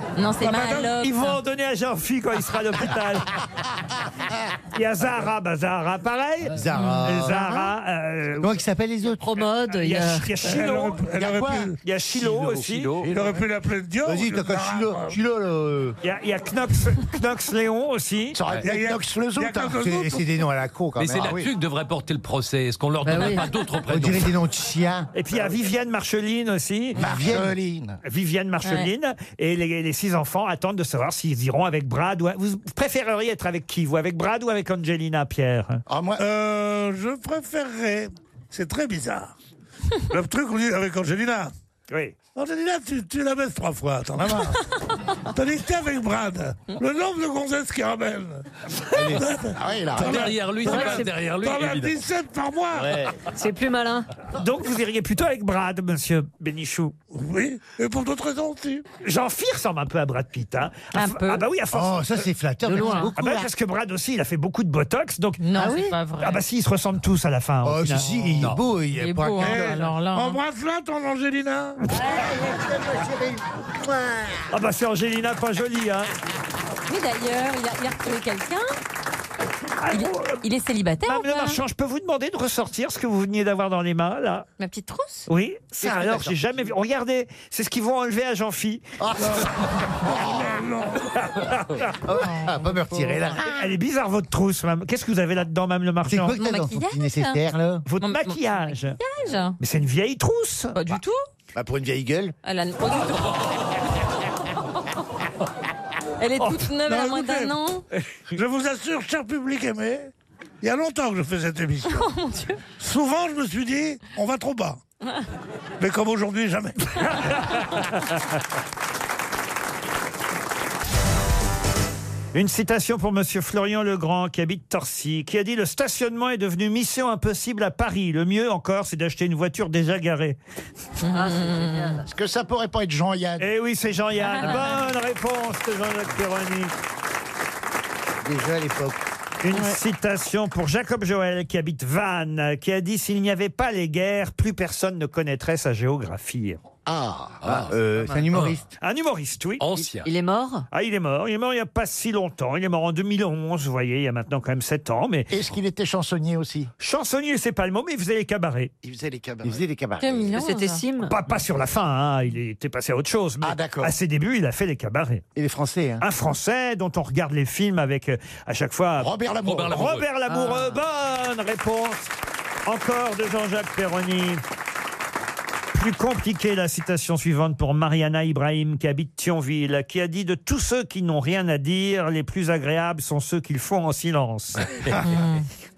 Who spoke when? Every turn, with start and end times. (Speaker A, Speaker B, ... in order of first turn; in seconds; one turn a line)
Speaker A: 0.1-1.4
Speaker B: 0.4-0.9
Speaker C: 1.0-3.4
Speaker C: 4.7-8.6
Speaker D: 6.5-7.5
Speaker D: 8.4-9.2
Speaker E: 9.2-10.3
Speaker C: 9.7-11.1
Speaker B: 10.4-11.8
Speaker D: 11.2-11.7
Speaker C: 11.8-13.1
Speaker F: 12.1-13.4
Speaker B: 13.0-15.2
Speaker D: 14.1-16.0
Speaker C: 16.0-18.4
Speaker G: 18.3-19.9
Speaker B: 18.6-20.3
Speaker D: 19.8-21.5
Speaker F: 21.0-24.3
Speaker E: 23.1-23.5
Speaker D: 23.9-25.1
Speaker C: 25.1-27.1
Speaker D: 27.0-27.6
Speaker G: 27.0-28.0
Speaker C: 28.0-35.8
Speaker A: 28.6-28.9
Speaker G: 35.9-36.2
Speaker B: 36.2-39.3
Speaker B: 40.1-41.5
Speaker C: 41.9-42.1
Speaker B: 42.4-44.6
Speaker B: 45.3-48.4
Speaker D: 48.9-49.3
Speaker B: 49.0-53.0
Speaker G: 49.5-50.4
Speaker F: 50.0-52.0
Speaker E: 50.6-51.1
Speaker D: 52.7-53.1
Speaker E: 53.4-54.1
Speaker C: 54.4-57.0
Speaker B: 57.1-58.8
Speaker C: 59.0-62.3
Speaker A: 60.9-61.5
Speaker D: 61.7-63.5
Speaker E: 62.7-63.1
Speaker A: 62.8-63.1
Speaker C: 63.2-65.4
Speaker A: 65.4-66.5
Speaker E: 65.6-65.9
Speaker C: 66.2-68.1
Speaker D: 67.6-69.8
Speaker A: 68.9-70.4
Speaker B: 69.4-71.8
Speaker D: 71.9-74.5
Speaker C: 74.5-76.1
Speaker A: 76.9-78.7
Speaker C: 79.8-80.4
Speaker A: 79.9-81.6
Speaker C: 81.0-84.5
Speaker A: 84.6-85.3
Speaker C: 85.3-88.8
Speaker D: 85.8-86.3
Speaker D: 89.0-89.5
Speaker B: 89.2-91.3
Speaker C: 91.2-91.9
Speaker D: 92.0-93.7
Speaker A: 92.1-93.3
Speaker C: 93.5-96.4
Speaker D: 96.0-97.8
Speaker A: 96.3-97.4
Speaker C: 97.9-99.0
Speaker A: 98.0-99.6
Speaker C: 99.6-101.0
Speaker A: 100.8-101.2
Speaker D: 101.5-102.3
Speaker A: 102.4-103.8
Speaker A: 106.2-107.9
Speaker C: 106.4-106.7
Speaker B: 106.8-107.5
Speaker B: 108.3-110.1
Speaker B: 110.6-112.1
Speaker A: 111.9-112.6
Speaker B: 112.8-114.8
Speaker B: 115.8-117.1
Speaker C: 122.3-130.4
Speaker A: 131.0-132.0
Speaker E: 131.0-132.1
Speaker G: 132.1-133.5
Speaker C: 133.4-136.7
Speaker A: 134.2-134.8
Speaker D: 138.2-139.0
Speaker C: 139.4-146.6
Speaker A: 139.5-139.8
Speaker G: 146.9-147.4
Speaker F: 147.4-147.8
Speaker D: 147.4-148.7
Speaker E: 148.0-148.2
Speaker F: 148.3-148.6
Speaker C: 148.8-149.7
Speaker F: 149.6-150.1
Speaker E: 150.0-150.7
Speaker C: 150.7-155.3
Speaker G: 155.3-156.7
Speaker C: 156.8-158.7
Speaker G: 158.8-159.7
Speaker D: 159.4-160.4
Speaker A: 160.0-160.8
Speaker E: 160.3-161.1
Speaker C: 161.1-165.2
Speaker G: 163.4-164.0
Speaker D: 165.3-166.1
Speaker C: 166.0-172.1
Speaker G: 169.0-170.0
Speaker F: 169.4-170.1
Speaker E: 170.3-170.8
Speaker C: 172.7-174.4
Speaker C: 175.7-185.1
Speaker A: 185.0-185.5